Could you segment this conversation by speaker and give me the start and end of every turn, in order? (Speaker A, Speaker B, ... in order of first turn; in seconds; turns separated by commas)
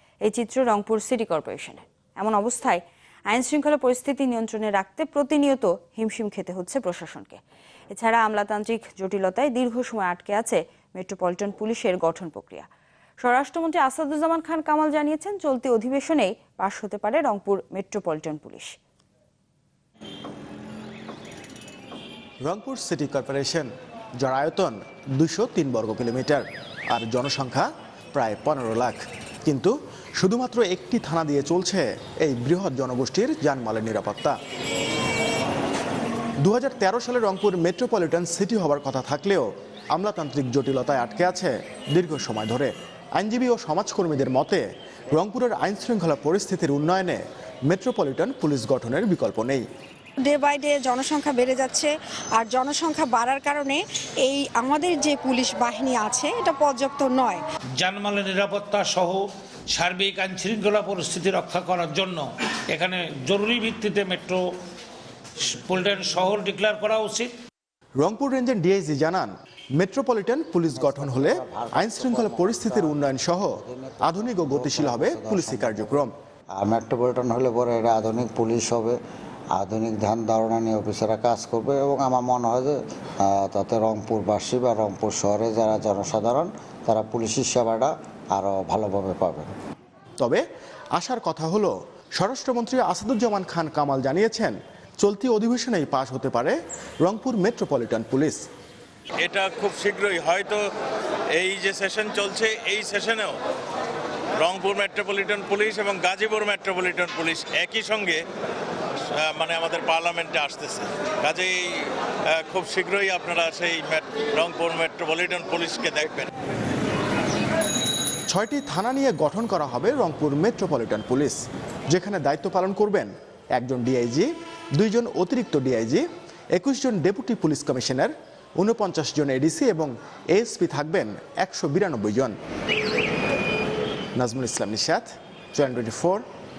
Speaker A: 0.2-7.4, Speaker A: 7.9-12.7, Speaker A: 13.2-18.8, Speaker B: 22.4-23.7, Speaker B: 24.2-34.4, Speaker B: 36.4-49.6, Speaker C: 50.2-57.4, Speaker D: 57.8-64.5, Speaker D: 65.4-67.3, Speaker B: 68.0-76.1, Speaker E: 70.7-79.0, Speaker E: 79.5-89.5, Speaker B: 90.2-90.4, Speaker B: 90.9-98.4, Speaker F: 99.2-100.6, Speaker F: 101.3-103.4, Speaker F: 104.4-108.2, Speaker F: 109.1-116.3, Speaker B: 118.3-121.4, Speaker B: 121.9-132.3, Speaker B: 134.1-136.2